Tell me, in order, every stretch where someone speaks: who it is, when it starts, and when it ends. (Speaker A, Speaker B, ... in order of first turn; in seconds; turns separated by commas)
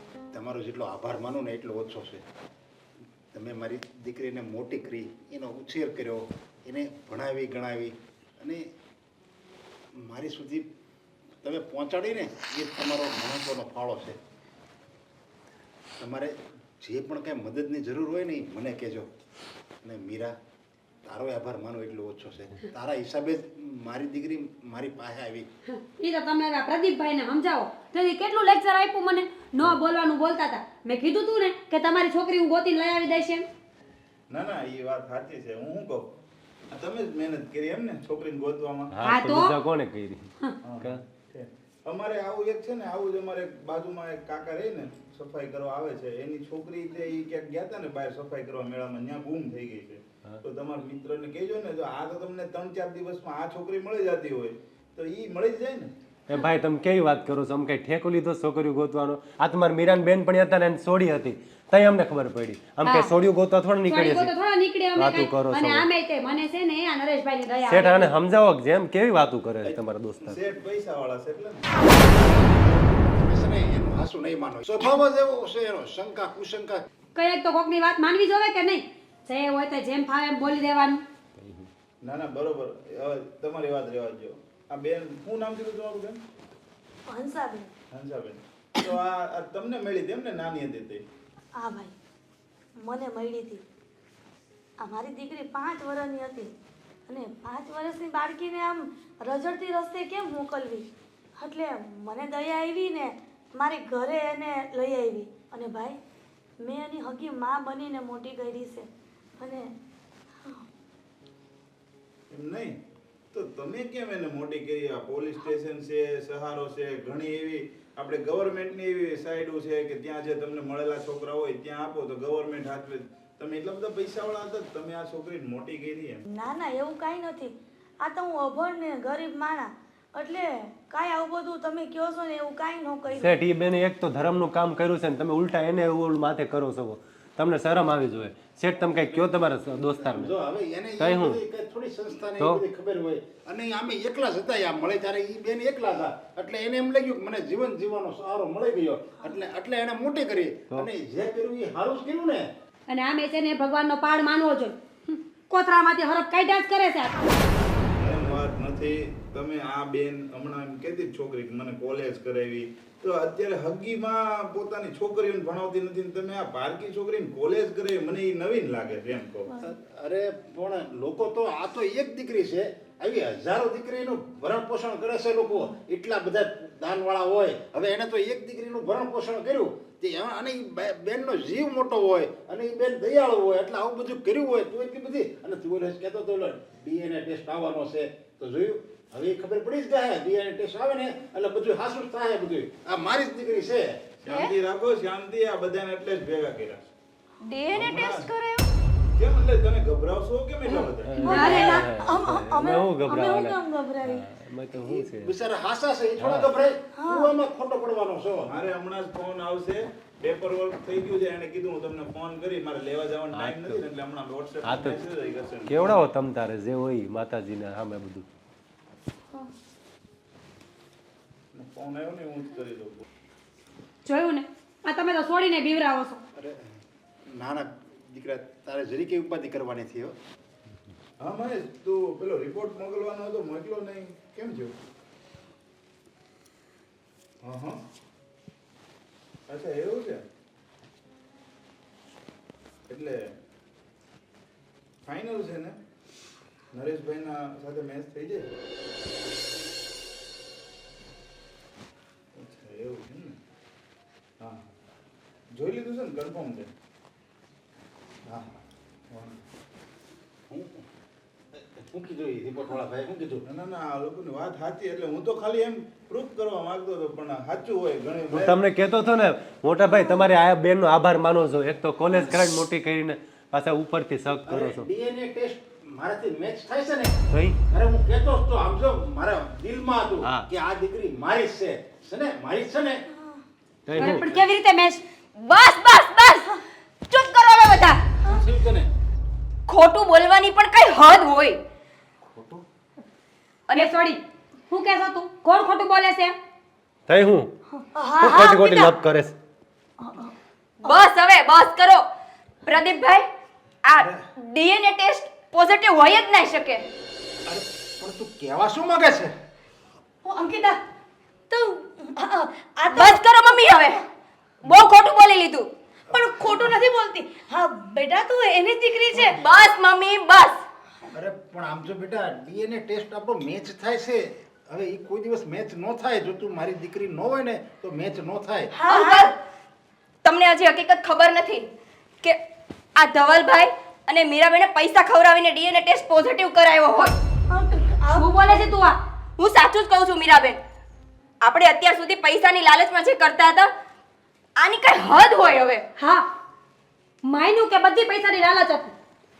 Speaker A: 0.3-2.2, Speaker A: 3.3-8.6, Speaker A: 10.0-10.7, Speaker A: 11.4-14.2, Speaker A: 16.0-19.1, Speaker A: 19.8-20.3, Speaker A: 21.0-25.4, Speaker B: 25.7-33.5, Speaker C: 34.3-36.1, Speaker C: 36.7-38.9, Speaker D: 38.9-41.0, Speaker B: 39.0-39.5, Speaker C: 40.6-55.9, Speaker D: 56.3-64.3, Speaker B: 62.8-63.1, Speaker B: 63.8-68.1, Speaker D: 64.9-65.9, Speaker D: 67.7-70.4, Speaker C: 69.6-71.8, Speaker A: 72.1-76.8, Speaker B: 77.2-81.0, Speaker D: 81.4-81.7, Speaker C: 82.0-86.2, Speaker E: 87.1-87.7, Speaker C: 87.9-91.0, Speaker E: 91.6-91.9, Speaker E: 92.8-93.6, Speaker E: 94.8-96.5, Speaker E: 97.1-100.9, Speaker E: 101.4-106.0, Speaker E: 106.6-109.7, Speaker C: 112.3-112.7, Speaker C: 113.3-126.2, Speaker E: 126.3-133.4, Speaker D: 133.1-140.3, Speaker A: 139.1-152.4, Speaker D: 141.0-141.4, Speaker B: 152.9-157.2, Speaker C: 158.0-169.5, Speaker E: 169.5-169.8, Speaker A: 169.6-194.0, Speaker C: 194.2-196.9, Speaker F: 194.3-194.5, Speaker F: 197.4-198.7, Speaker C: 197.7-198.3, Speaker C: 199.1-201.8, Speaker E: 200.7-204.2, Speaker D: 201.0-205.3, Speaker B: 201.3-201.7, Speaker A: 204.8-208.5, Speaker D: 206.2-206.5, Speaker E: 207.0-207.3, Speaker C: 208.5-216.1, Speaker D: 213.3-213.8, Speaker D: 214.6-215.0, Speaker D: 215.7-218.2, Speaker C: 221.5-223.0, Speaker B: 224.0-226.2, Speaker A: 227.3-230.1, Speaker C: 231.2-234.7, Speaker C: 237.4-237.7, Speaker C: 239.5-240.2, Speaker C: 242.9-243.2, Speaker C: 245.1-245.8, Speaker C: 246.7-248.4, Speaker C: 252.3-253.3, Speaker C: 255.5-256.7, Speaker C: 258.3-258.6, Speaker C: 259.1-259.4, Speaker A: 260.5-260.8, Speaker A: 261.5-263.4, Speaker C: 263.4-268.6, Speaker D: 268.3-274.9, Speaker E: 269.9-270.2, Speaker A: 274.4-277.2, Speaker D: 277.3-277.6, Speaker A: 277.7-283.0, Speaker E: 283.1-283.4, Speaker D: 283.9-284.3, Speaker B: 283.9-285.0, Speaker F: 285.4-286.5, Speaker F: 287.1-287.9, Speaker A: 288.3-288.9, Speaker F: 289.7-291.6, Speaker A: 292.2-292.6, Speaker B: 293.7-296.3, Speaker D: 297.1-297.5, Speaker E: 297.7-298.9, Speaker D: 298.2-299.3, Speaker E: 300.0-300.3, Speaker F: 300.8-302.0, Speaker F: 302.6-303.2, Speaker F: 303.8-306.8, Speaker A: 307.5-309.3, Speaker E: 310.2-310.8, Speaker E: 311.5-313.2, Speaker F: 312.9-314.0, Speaker F: 314.6-315.7, Speaker E: 316.1-319.4, Speaker F: 319.4-320.6, Speaker A: 321.1-328.7, Speaker E: 328.7-329.3, Speaker F: 328.9-329.3, Speaker F: 330.2-331.6, Speaker F: 333.0-337.1, Speaker E: 337.5-338.7, Speaker B: 338.1-339.0, Speaker F: 339.4-340.6, Speaker F: 341.4-343.7, Speaker F: 344.6-345.8, Speaker B: 346.0-346.3, Speaker B: 347.2-348.9